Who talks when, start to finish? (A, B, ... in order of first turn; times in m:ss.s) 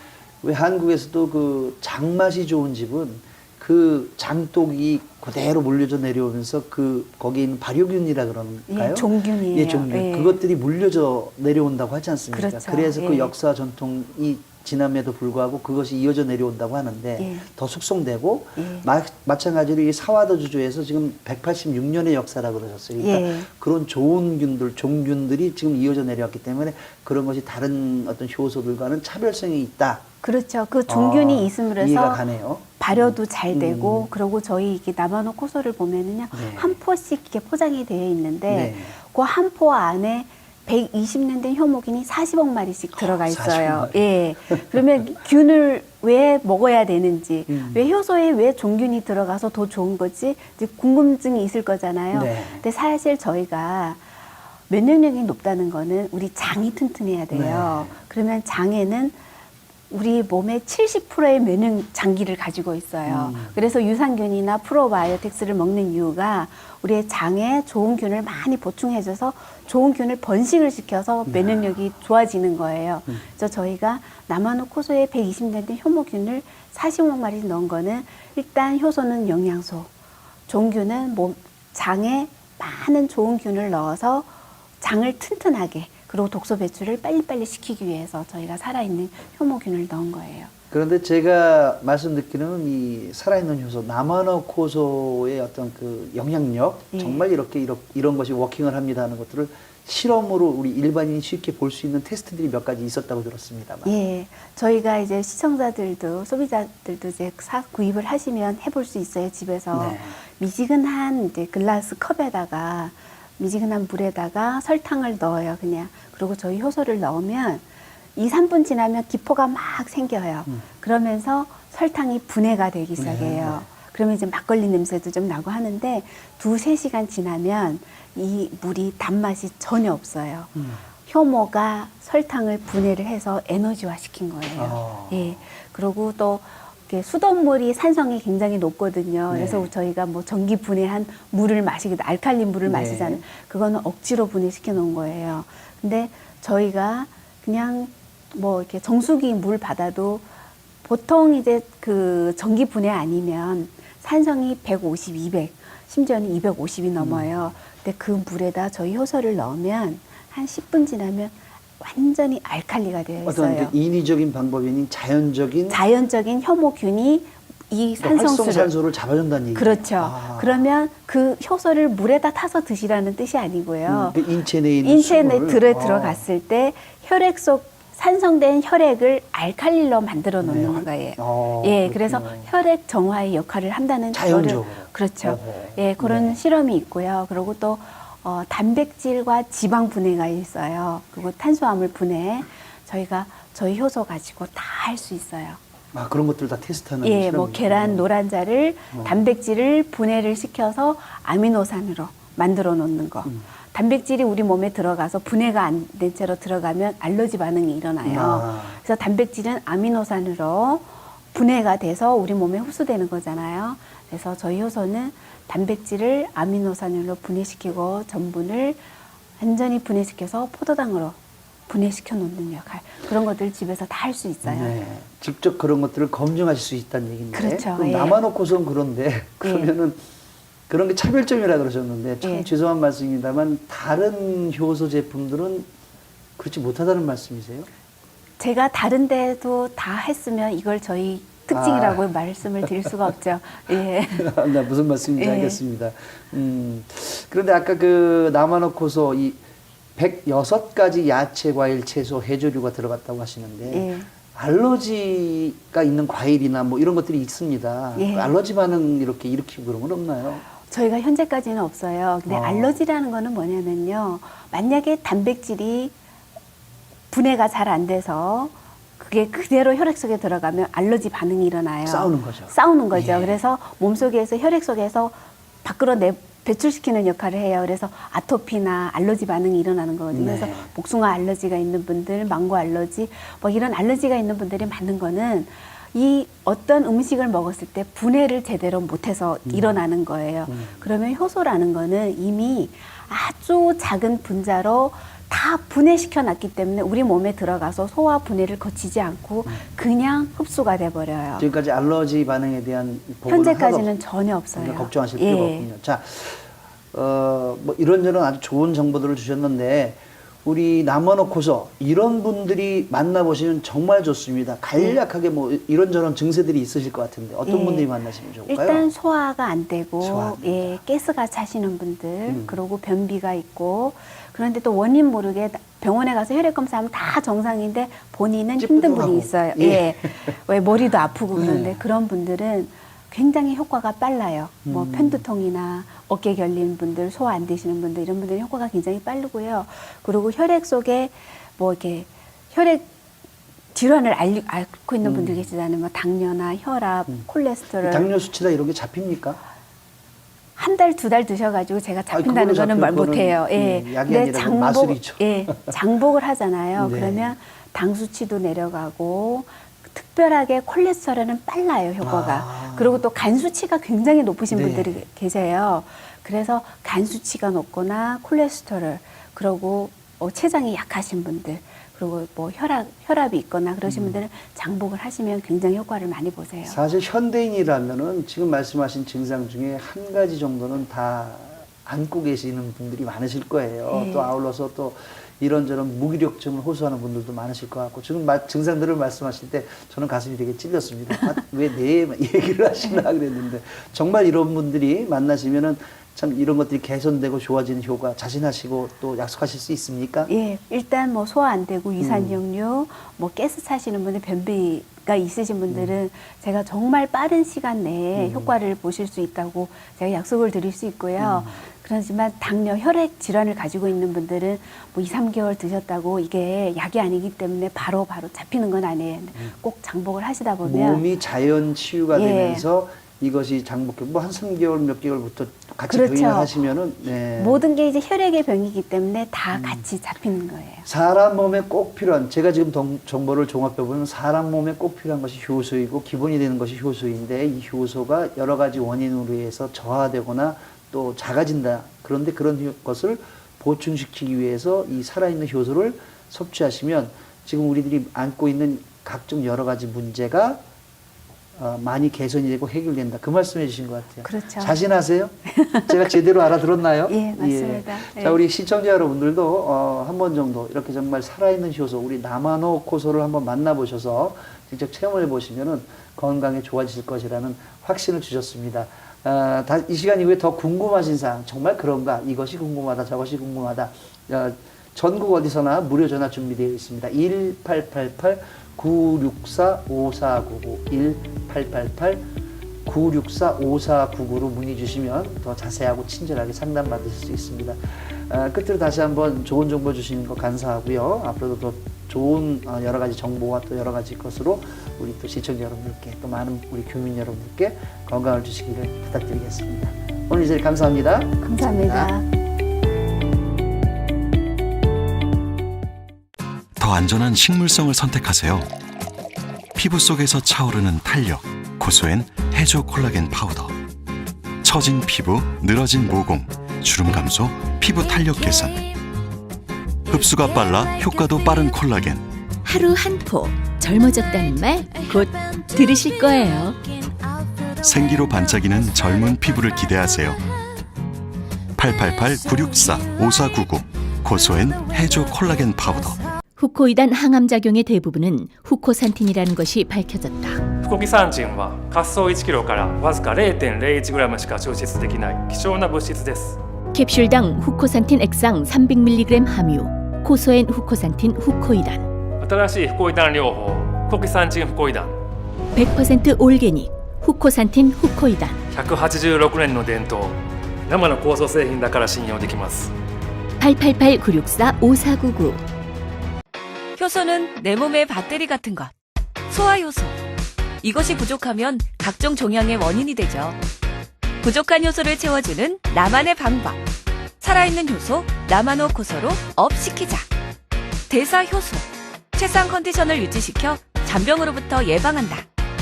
0:00.4-0:30.0 A
0:08.7-0:10.4 B
0:12.3-0:13.3 B
0:17.2-0:17.5 B
0:18.6-0:18.8 B
0:23.0-0:23.5 B
0:30.2-0:32.2 B
0:30.9-0:34.1 A
0:32.8-0:54.0 B
0:36.3-0:36.8 A
0:38.5-0:38.9 A
0:43.0-0:44.8 A
0:47.5-0:47.8 A
0:52.1-0:52.6 A
0:54.7-0:59.2 B
0:57.3-0:58.0 A
0:59.9-1:19.9 B
1:03.0-1:03.6 A
1:11.2-1:11.7 A
1:20.5-1:24.3 B
1:24.8-1:30.5 B
1:30.7-1:43.9 A
1:36.9-1:37.2 B
1:43.8-1:57.6 B
1:49.7-1:50.2 A
1:58.2-2:10.5 B
2:03.0-2:03.6 A
2:10.6-2:10.8 A
2:11.0-2:30.2 B
2:14.5-2:15.4 A
2:19.3-2:19.7 A
2:22.6-2:23.2 A
2:30.8-2:43.7 B
2:37.0-2:37.5 A
2:43.2-2:45.8 A
2:45.7-2:48.7 B
2:48.0-2:50.6 A
2:49.5-2:54.2 B
2:53.8-2:56.2 A
2:54.8-3:15.6 B
3:00.4-3:02.5 A
3:04.1-3:06.4 A
3:15.9-3:18.0 A
3:17.0-3:38.8 B
3:18.9-3:19.2 A
3:28.0-3:28.8 A
3:39.4-3:41.2 B
3:41.7-3:44.8 B
3:44.4-3:50.0 A
3:47.3-3:48.2 B
3:49.4-3:49.7 B
3:50.7-3:55.7 A
3:52.2-3:52.5 B
3:56.4-3:57.7 A
3:58.4-4:04.4 B
4:01.5-4:02.0 A
4:02.6-4:03.1 A
4:04.1-4:09.4 A
4:05.1-4:05.6 B
4:10.0-4:20.4 A
4:13.7-4:14.1 B
4:17.9-4:18.3 B
4:20.7-4:25.9 B
4:22.3-4:22.8 A
4:27.1-5:01.5 B
4:31.8-4:33.4 A
4:40.1-4:40.7 A
4:49.5-4:49.8 A
4:50.5-4:50.8 A
5:01.4-5:03.9 A
5:03.3-5:05.7 B
5:04.5-5:18.9 A
5:17.4-5:17.9 B
5:18.4-5:42.9 B
5:20.0-5:20.8 A
5:22.3-5:22.6 A
5:28.6-5:30.4 A
5:31.3-5:31.8 A
5:34.6-5:35.2 A
5:43.7-5:48.1 B
5:45.0-5:45.4 A
5:47.8-5:49.4 A
5:50.6-6:16.8 B
5:52.1-5:55.7 A
5:56.8-5:57.3 A
6:02.0-6:03.0 A
6:04.5-6:05.0 A
6:13.8-6:14.2 A
6:16.6-6:40.3 A
6:23.9-6:24.3 B
6:40.3-7:01.0 B
6:42.0-6:42.4 A
6:45.7-6:46.0 A
6:48.1-6:48.5 A
6:51.2-6:51.6 A
7:00.6-7:07.6 A
7:02.1-7:02.6 B
7:05.9-7:06.5 B
7:07.4-7:10.8 B
7:09.5-7:09.8 A
7:10.8-7:30.6 A
7:31.5-7:35.3 A
7:34.2-7:34.7 B
7:35.5-7:36.0 B
7:35.9-8:02.2 A
7:37.1-7:38.4 B
8:02.8-8:22.1 A
8:21.4-8:22.2 B
8:26.8-8:28.7 C
8:29.8-8:33.7 C
8:34.6-8:38.8 C
8:40.1-8:42.3 C
8:42.6-8:46.9 D
8:47.8-8:50.4 C
8:51.8-8:56.2 C
8:56.6-9:00.6 D
9:00.8-9:06.6 E
9:06.9-9:12.0 D
9:12.4-9:15.1 E
9:15.7-9:18.6 D
9:18.7-9:22.9 E
9:23.6-9:25.6 D
9:27.0-9:28.9 F
9:29.5-9:30.1 F
9:30.8-9:33.6 F
9:34.4-9:36.8 F
9:37.4-9:40.3 F
9:41.1-9:45.4 F